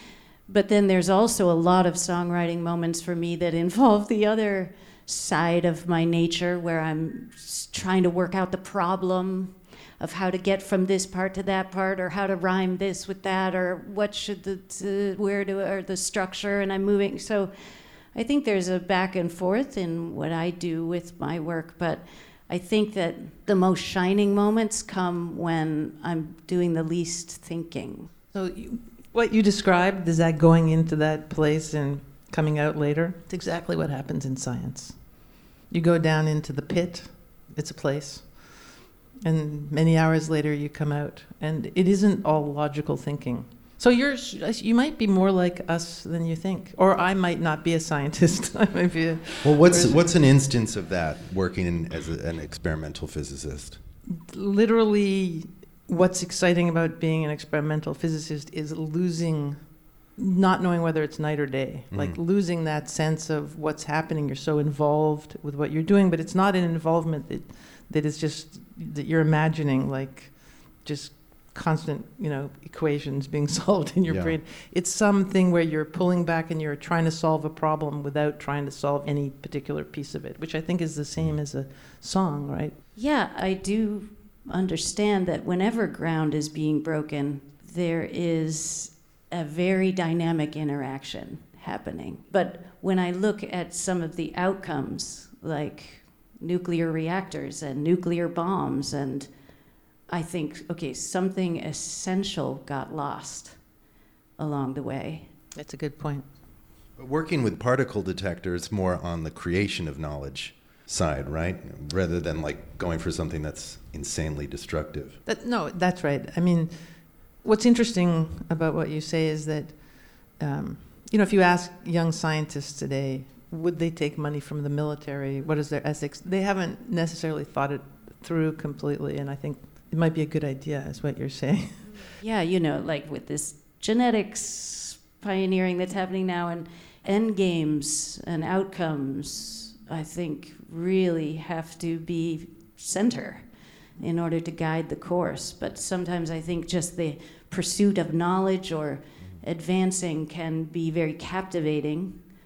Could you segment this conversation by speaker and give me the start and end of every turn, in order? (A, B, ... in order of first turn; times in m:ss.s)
0:00.5-0:17.5 A
0:18.1-0:28.1 A
0:28.3-0:38.7 B
0:39.2-0:50.0 B
0:49.4-0:53.8 C
0:54.1-1:22.8 B
1:01.9-1:02.2 C
1:14.1-1:14.4 C
1:23.0-1:39.3 A
1:40.1-1:43.6 A
1:44.4-1:45.3 A
1:45.5-1:46.3 B
1:47.0-1:55.2 C
1:55.2-1:56.7 B
1:57.4-2:11.9 B
2:12.2-2:32.2 A